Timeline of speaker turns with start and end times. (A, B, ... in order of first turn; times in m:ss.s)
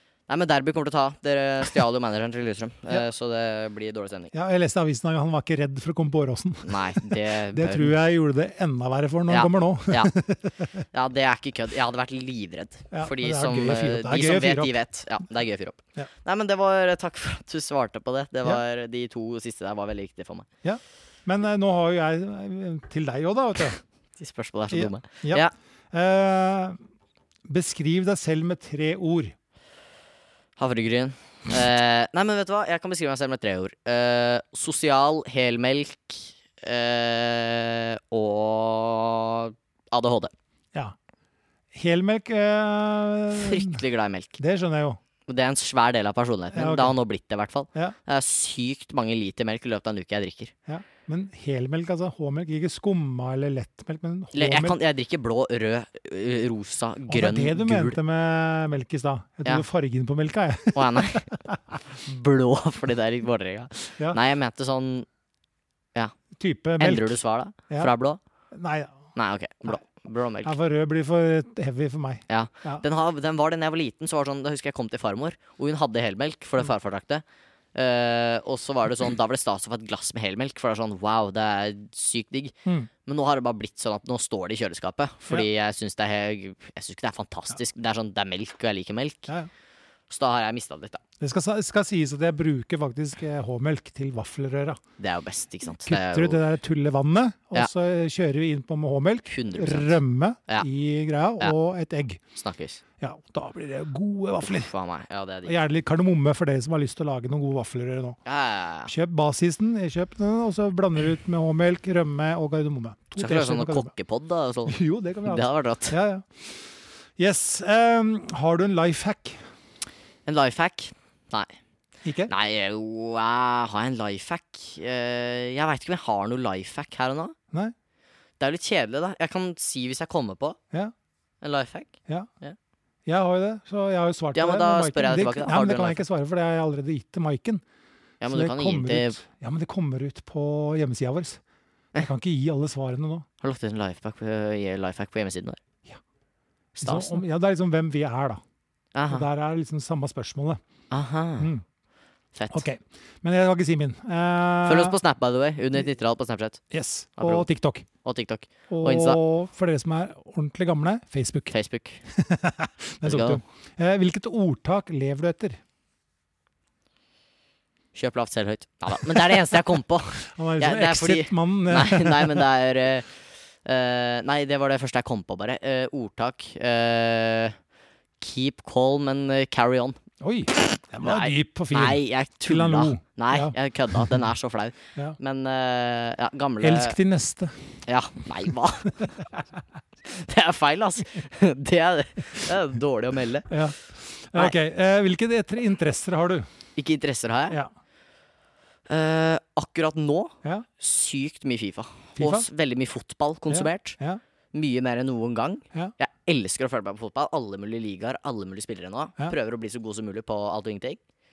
0:00.3-0:04.3 A
0:04.3-0:10.9 B
0:06.6-0:08.0 A
0:09.3-0:10.1 A
0:10.9-0:20.5 A
0:12.9-0:14.8 B
0:20.6-0:23.8 B
0:24.2-0:25.5 A
0:24.7-0:26.8 B
0:27.5-0:29.4 B
0:30.6-0:40.3 A
0:41.7-0:43.8 B
0:43.3-0:44.4 A
0:44.4-0:45.0 B
0:45.3-0:50.5 A
0:46.5-0:47.0 B
0:50.7-0:54.8 B
0:54.3-0:58.0 A
0:57.1-1:01.8 B
1:00.7-1:01.3 A
1:01.9-1:05.1 A
1:06.4-1:07.9 B
1:06.8-1:08.2 A
1:08.5-1:09.1 B
1:09.2-1:10.5 A
1:10.4-1:12.8 B
1:12.3-1:29.3 A
1:30.1-1:31.0 A
1:31.2-1:34.8 B
1:35.0-1:36.4 A
1:35.8-1:42.2 B
1:39.3-1:40.7 A
1:42.4-1:42.8 A
1:43.0-1:44.7 B
1:44.4-1:45.6 A
1:45.4-1:48.2 B
1:48.2-1:48.9 A
1:48.9-1:53.9 B
1:53.2-1:56.0 A
1:54.7-1:59.4 B
2:00.3-2:01.6 A
2:02.0-2:02.3 B
2:02.3-2:07.4 A
2:08.4-2:10.6 A
2:11.4-2:12.6 A
2:13.1-2:17.6 B
2:14.4-2:16.0 A
2:18.2-2:19.2 A
2:18.3-2:21.4 B
2:22.0-2:23.3 B
2:23.4-2:25.6 A
2:26.8-2:28.4 B
2:26.8-2:27.2 A
2:29.0-2:29.3 A
2:29.1-2:30.6 B
2:30.9-2:31.5 A
2:31.4-2:31.6 B
2:32.3-2:32.6 A
2:32.5-2:35.0 B
2:34.6-2:36.6 A
2:36.7-2:37.9 B
2:37.2-2:37.5 A
2:38.0-2:39.2 A
2:38.7-2:41.5 B
2:41.5-2:42.0 A
2:42.1-2:45.6 B
2:43.0-2:43.4 A
2:48.0-2:57.6 A
2:49.2-2:49.6 B
2:50.2-2:52.5 B
2:58.2-3:00.0 A
3:00.2-3:04.2 B
3:01.0-3:07.0 A
3:06.6-3:07.6 B
3:07.9-3:09.2 A
3:10.0-3:13.6 A
3:13.5-3:16.5 B
3:16.8-3:17.6 A
3:18.9-3:24.0 A
3:22.2-3:22.5 B
3:23.5-3:24.2 B
3:24.5-3:31.0 A